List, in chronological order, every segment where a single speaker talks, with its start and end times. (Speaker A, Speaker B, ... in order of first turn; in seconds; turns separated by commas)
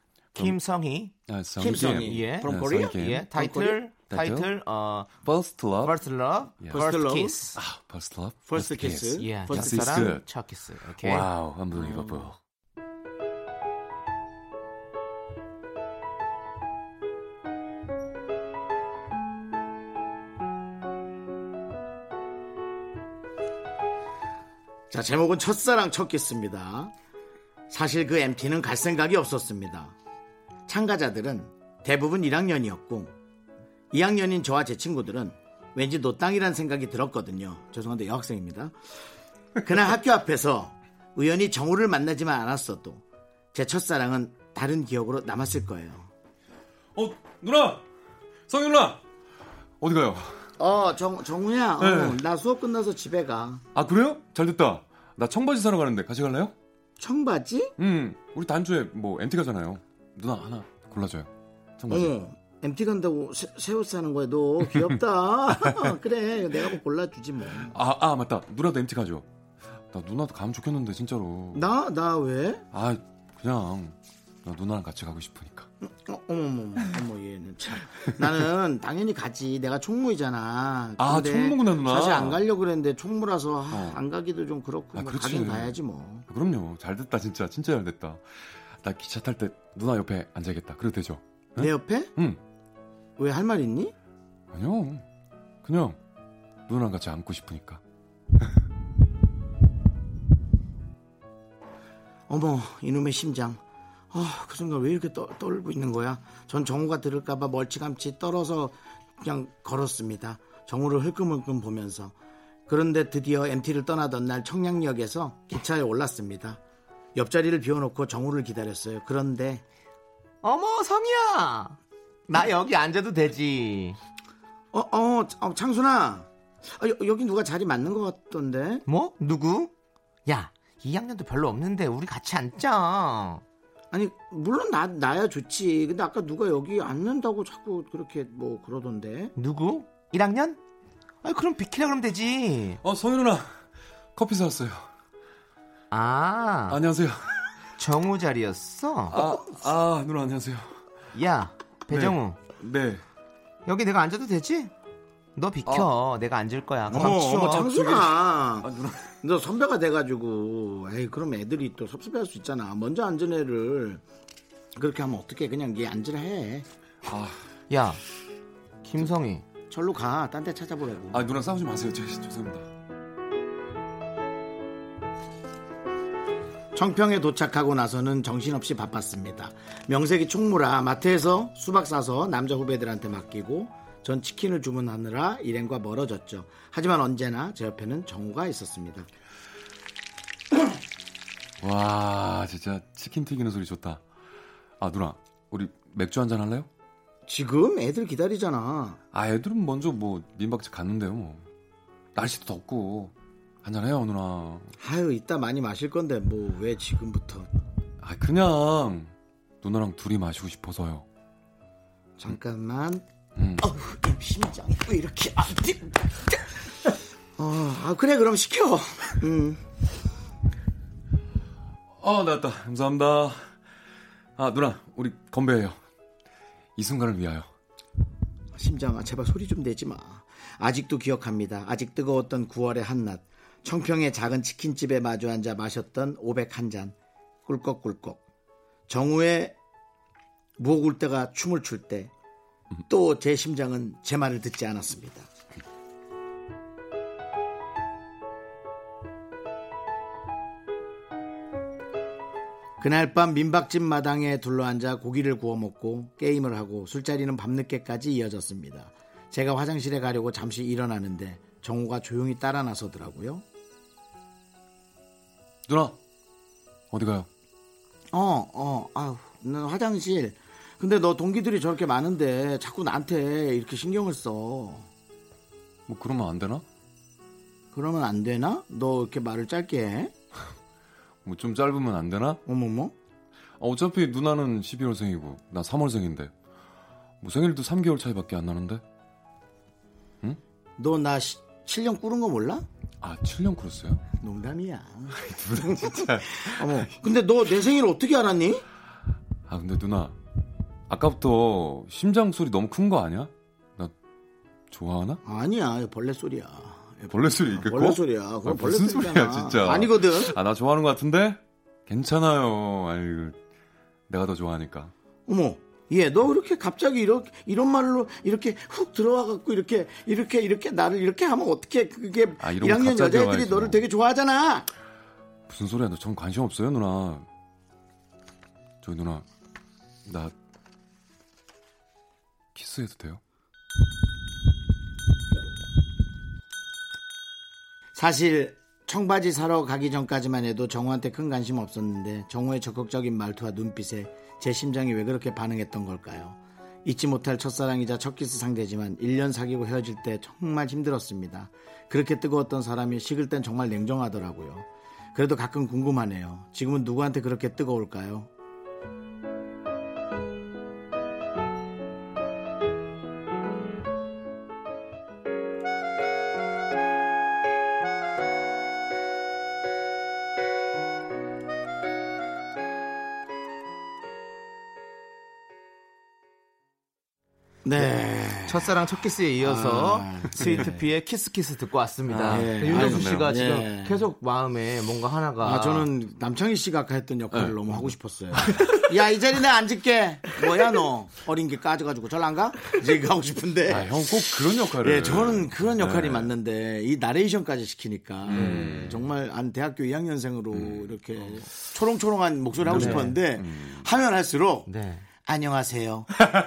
Speaker A: 0.3-1.1, Speaker B: 1.3-3.3, Speaker C: 1.6-3.8, Speaker A: 1.7-5.1, Speaker B: 3.9-4.5, Speaker B: 5.2-6.0, Speaker A: 5.8-7.6, Speaker B: 6.6-6.9, Speaker C: 6.7-7.5, Speaker B: 7.5-10.3, Speaker C: 8.5-10.1, Speaker A: 9.2-11.3, Speaker B: 11.0-12.4, Speaker C: 11.8-12.3, Speaker C: 24.9-26.9, Speaker C: 27.7-29.9, Speaker C: 30.7-33.1, Speaker C: 33.9-38.8, Speaker C: 39.6-43.0, Speaker C: 43.5-46.1, Speaker B: 47.0-47.8, Speaker B: 48.5-49.0, Speaker B: 49.8-50.4, Speaker C: 50.6-53.6, Speaker B: 51.8-52.2, Speaker B: 53.8-56.5, Speaker C: 57.0-57.8, Speaker B: 57.8-62.1, Speaker C: 61.9-67.8, Speaker B: 67.6-69.3, Speaker B: 69.9-71.6, Speaker C: 71.5-72.7, Speaker B: 72.7-75.7, Speaker C: 75.8-86.3, Speaker B: 81.0-82.4, Speaker B: 83.7-84.0, Speaker B: 84.9-85.8, Speaker B: 86.3-92.4, Speaker C: 91.6-92.1, Speaker C: 93.2-94.0, Speaker B: 94.5-95.0, Speaker B: 95.6-96.0, Speaker B: 96.7-97.8, Speaker C: 102.3-103.6, Speaker C: 104.1-112.2, Speaker C: 112.7-116.6, Speaker C: 117.2-119.6, Speaker A: 120.4-121.8, Speaker A: 122.3-124.0, Speaker C: 124.7-128.8, Speaker A: 128.9-129.7, Speaker A: 130.3-133.4, Speaker C: 133.9-139.3, Speaker A: 139.4-140.6, Speaker A: 141.2-142.8, Speaker B: 142.8-143.5, Speaker B: 144.2-144.9, Speaker A: 145.9-146.8, Speaker B: 146.7-147.5, Speaker A: 147.8-149.2, Speaker B: 149.1-150.7, Speaker A: 151.1-152.4, Speaker B: 151.9-153.0, Speaker A: 153.7-154.7, Speaker A: 155.4-157.7, Speaker C: 156.9-158.7, Speaker B: 157.0-159.2, Speaker C: 159.2-164.0, Speaker C: 164.8-166.7, Speaker B: 167.1-167.4, Speaker A: 167.7-168.0, Speaker A: 168.8-169.4, Speaker C: 169.7-171.3, Speaker B: 171.1-172.7, Speaker C: 176.8-189.1, Speaker B: 191.6-194.0, Speaker B: 194.8-196.7, Speaker C: 197.3-199.0, Speaker B: 199.1-201.4, Speaker B: 202.2-204.7, Speaker C: 204.8-207.5, Speaker B: 208.0-211.1, Speaker C: 212.2-213.1, Speaker B: 213.4-213.6, Speaker C: 213.6-216.5, Speaker C: 217.4-219.7, Speaker B: 222.0-223.5, Speaker B: 224.4-225.8, Speaker B: 226.8-227.5, Speaker C: 228.6-236.9, Speaker C: 237.5-238.2, Speaker C: 238.9-239.6, Speaker C: 240.6-242.1, Speaker C: 242.9-245.3, Speaker C: 252.8-263.4, Speaker B: 265.7-266.0, Speaker B: 266.9-267.3, Speaker C: 268.1-274.9, Speaker B: 275.9-276.6, Speaker C: 277.7-280.1, Speaker B: 281.2-282.4, Speaker C: 282.5-282.9, Speaker B: 283.6-286.3, Speaker B: 287.2-288.8, Speaker C: 290.8-292.7, Speaker B: 293.0-294.0, Speaker C: 294.2-298.6, Speaker B: 295.1-296.9, Speaker B: 299.5-300.2, Speaker B: 300.9-303.9, Speaker B: 304.7-305.2, Speaker C: 305.2-310.4, Speaker B: 307.1-313.4, Speaker B: 314.1-314.9, Speaker C: 315.3-324.7, Speaker B: 322.4-323.8, Speaker B: 325.5-327.3, Speaker B: 328.8-329.3, Speaker B: 330.1-330.3, Speaker B: 332.6-333.2, Speaker C: 337.9-358.3, Speaker C: 377.6-378.7, Speaker A: 378.5-385.9, Speaker C: 379.4-380.8, Speaker B: 382.1-383.4, Speaker C: 382.3-384.0, Speaker C: 385.4-404.7, Speaker B: 387.3-387.7, Speaker B: 393.7-396.3, Speaker B: 398.2-399.0, Speaker A: 398.3-399.0, Speaker B: 400.5-401.4, Speaker B: 402.6-403.9, Speaker A: 402.7-403.2, Speaker A: 404.7-405.1, Speaker C: 405.2-406.1